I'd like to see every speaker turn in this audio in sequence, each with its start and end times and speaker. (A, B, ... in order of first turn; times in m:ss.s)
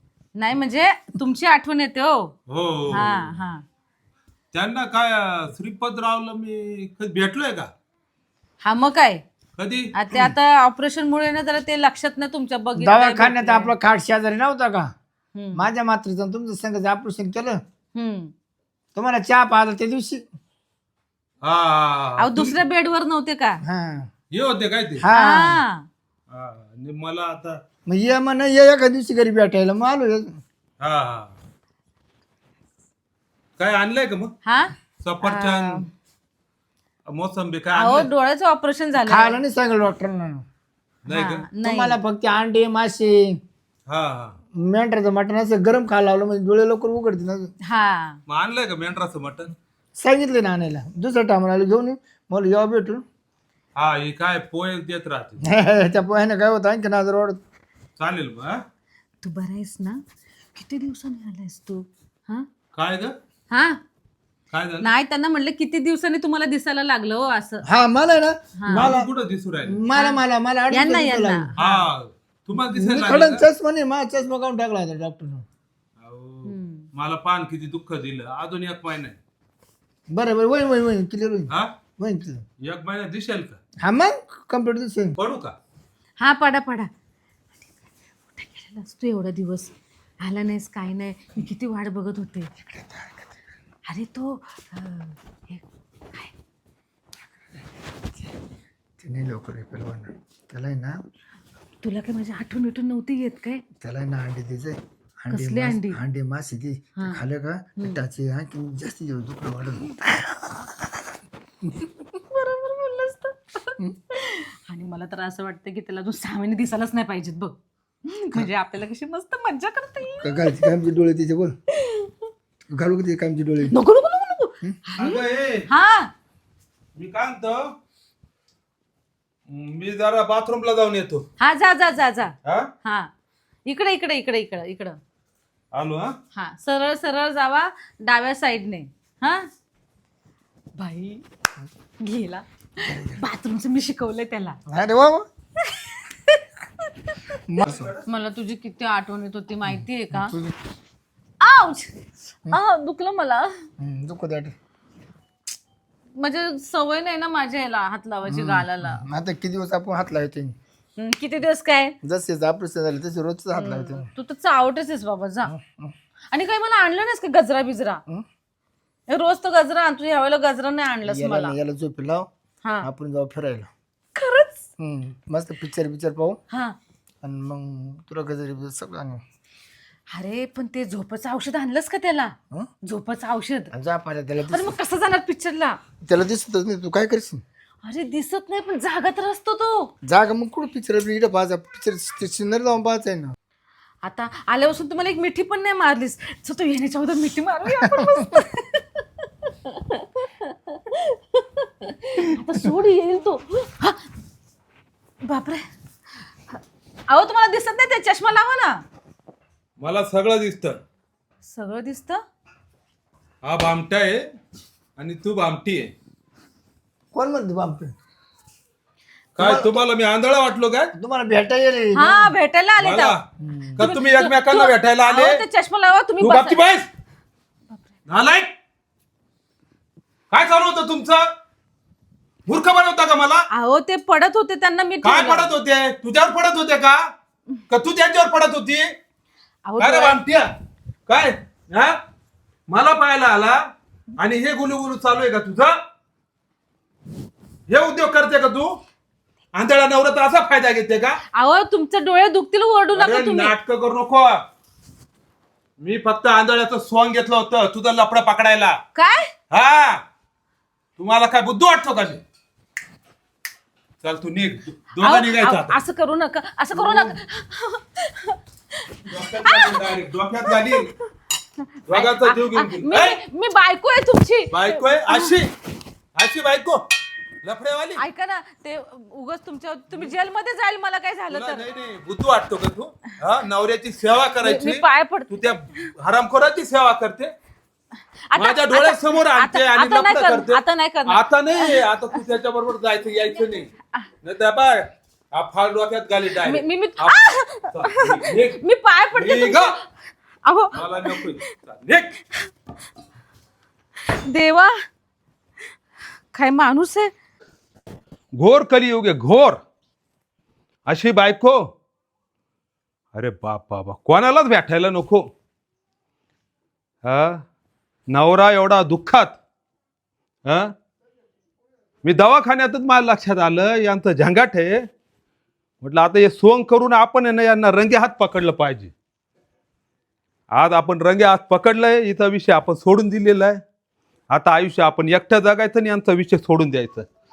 0:00.4-0:02.3 A
0:02.5-0:03.4 B
0:02.9-0:03.6 A
0:04.5-0:07.7 B
0:08.6-0:09.2 A
0:09.6-0:09.9 B
0:09.9-0:13.7 A
0:12.8-0:14.9 C
0:15.3-0:15.7 A
0:15.5-0:17.6 C
0:17.9-0:18.3 A
0:18.9-0:20.2 C
0:21.4-0:22.6 B
0:22.2-0:23.6 A
0:23.6-0:24.1 C
0:24.3-0:25.0 B
0:25.0-0:25.6 C
0:25.1-0:25.8 A
0:26.3-0:27.6 B
0:27.8-0:30.4 C
0:30.8-0:31.3 B
0:33.6-0:34.3 B
0:34.4-0:35.9 A
0:35.0-0:35.8 B
0:37.0-0:38.1 B
0:37.8-0:39.4 A
0:39.0-0:40.4 C
0:41.0-0:41.4 B
0:41.1-0:42.0 A
0:41.6-0:43.4 C
0:43.9-0:44.4 B
0:44.6-0:47.5 C
0:47.7-0:48.2 A
0:48.3-0:49.5 B
0:50.0-0:53.0 C
0:53.8-0:55.4 B
0:55.4-0:57.4 C
0:58.0-0:58.6 B
0:59.2-1:00.0 A
1:00.5-1:02.5 A
1:02.7-1:03.1 B
1:03.5-1:03.8 A
1:04.5-1:04.9 B
1:04.8-1:07.6 A
1:07.7-1:09.1 C
1:08.6-1:08.9 A
1:08.7-1:09.8 B
1:09.6-1:11.5 C
1:09.9-1:11.8 A
1:11.6-1:13.5 B
1:12.7-1:15.4 C
1:16.0-1:19.2 B
1:16.4-1:16.9 A
1:20.1-1:22.4 C
1:21.5-1:21.7 B
1:22.6-1:23.6 B
1:23.8-1:25.2 C
1:25.2-1:25.6 B
1:26.2-1:26.9 A
1:28.3-1:32.5 A
1:33.9-1:36.3 A
1:39.0-1:41.0 C
1:41.8-1:43.6 A
1:43.8-1:51.0 C
1:45.3-1:46.0 A
1:47.0-1:47.2 A
1:52.1-1:57.6 A
1:58.1-2:00.7 A
2:00.2-2:01.6 C
2:01.8-2:02.2 A
2:02.7-2:03.8 C
2:03.6-2:06.1 A
2:05.0-2:05.7 B
2:07.0-2:07.7 B
2:09.5-2:11.2 B
2:11.4-2:13.1 A
2:13.6-2:15.0 A
2:15.7-2:16.1 B
2:16.3-2:19.5 A
2:20.8-2:21.2 A
2:22.0-2:24.6 A
2:22.9-2:23.2 C
2:24.7-2:25.3 C
2:25.6-2:27.4 A
2:27.4-2:27.9 C
2:27.6-2:28.0 B
2:28.1-2:30.3 A
2:29.7-2:30.6 C
2:31.4-2:32.0 A
2:32.5-2:33.7 A
2:33.8-2:34.5 C
2:36.1-2:39.0 A
2:38.3-2:40.6 C
2:41.0-2:41.9 A
2:42.0-2:44.1 C
2:43.6-2:45.5 A
2:45.5-2:45.9 C
2:46.3-2:48.0 A
2:49.1-2:51.6 A
2:51.0-2:52.3 C
2:52.6-2:52.9 A
2:52.8-2:53.7 C
2:54.2-2:54.6 A
2:54.8-2:56.4 C
2:56.5-2:56.8 A
2:57.2-2:59.2 C
3:00.1-3:03.7 A
3:03.7-3:04.7 C
3:04.5-3:05.8 A
3:06.0-3:07.4 C
3:07.8-3:09.9 A
3:10.0-3:13.3 C
3:14.0-3:24.0 A
3:17.8-3:18.4 C
3:25.2-3:25.6 A
3:26.5-3:28.8 A
3:29.8-3:30.8 B
3:31.4-3:32.2 A
3:33.4-3:34.2 B
3:35.0-3:35.9 B
3:37.1-3:37.9 C
3:39.4-3:40.9 B
3:39.4-3:39.8 C
3:40.9-3:42.3 C
3:41.9-3:43.2 A
3:42.8-3:43.2 B
3:43.4-3:43.9 C
3:43.8-3:45.4 B
3:43.8-3:46.6 A
3:46.2-3:46.9 B
3:48.1-3:48.5 B
3:50.3-3:51.3 B
3:52.5-3:53.4 B
3:53.5-3:55.5 A
3:55.0-3:57.1 B
3:57.7-3:58.9 B
3:59.6-4:00.2 A
3:59.8-4:00.5 B
4:01.1-4:02.0 B
4:02.7-4:03.6 B
4:04.2-4:05.8 B
4:07.7-4:08.8 B
4:09.5-4:11.2 B
4:11.3-4:13.5 A
4:12.9-4:14.4 B
4:15.8-4:18.8 B
4:18.9-4:19.3 A
4:19.5-4:20.0 B
4:21.0-4:22.2 B
4:24.0-4:25.8 B
4:25.0-4:29.9 A
4:29.1-4:30.9 B
4:30.4-4:31.0 A
4:31.6-4:35.3 A
4:31.9-4:33.2 B
4:34.5-4:35.5 B
4:36.2-4:36.9 B
4:37.4-4:38.0 B
4:38.0-4:41.7 A
4:41.3-4:47.3 B
4:44.4-4:45.9 A
4:48.3-4:51.8 A
4:48.3-4:53.7 B
4:54.2-4:58.6 B
4:56.4-4:59.8 A
4:59.1-4:59.8 B
5:00.4-5:01.5 A
5:00.7-5:02.2 B
5:04.1-5:04.8 A
5:06.3-5:07.1 A
5:08.3-5:09.6 B
5:10.9-5:11.6 B
5:13.1-5:15.2 B
5:17.0-5:17.4 B
5:18.1-5:19.4 B
5:20.4-5:20.7 B
5:22.0-5:24.8 B
5:25.8-5:28.9 B
5:30.5-5:33.6 B
5:34.3-5:37.1 B